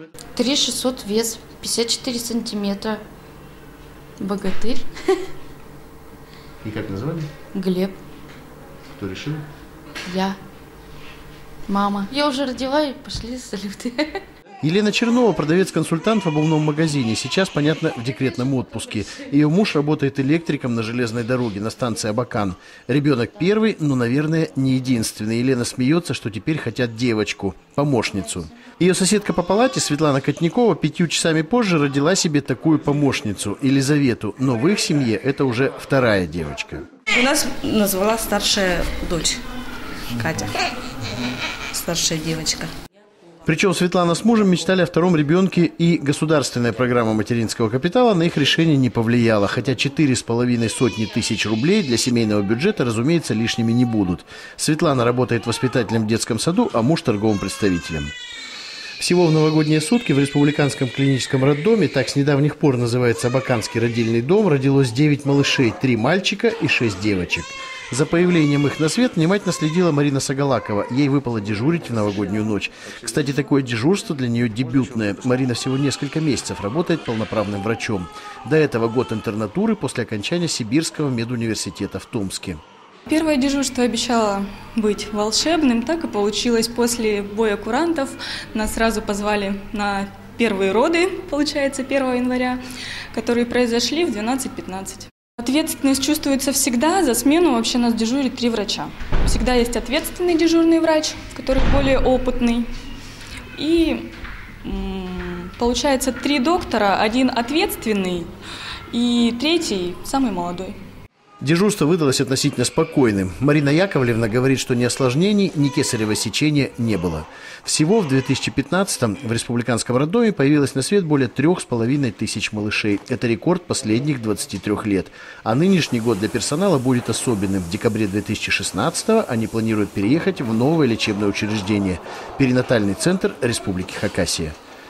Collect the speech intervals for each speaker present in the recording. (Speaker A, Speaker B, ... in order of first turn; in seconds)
Speaker A: 0.4-3.0, 4.2-4.9, 7.5-8.0, 10.1-10.4, 11.7-14.2
Speaker B: 6.6-7.3, 8.9-9.4, 14.6-36.9, 43.5-58.1, 59.0-82.6, 111.4-134.6
Speaker C: 37.1-39.4, 40.1-40.6, 41.7-42.7
Speaker D: 83.1-92.6, 93.1-102.7, 103.6-104.1, 104.6-108.3, 108.9-110.8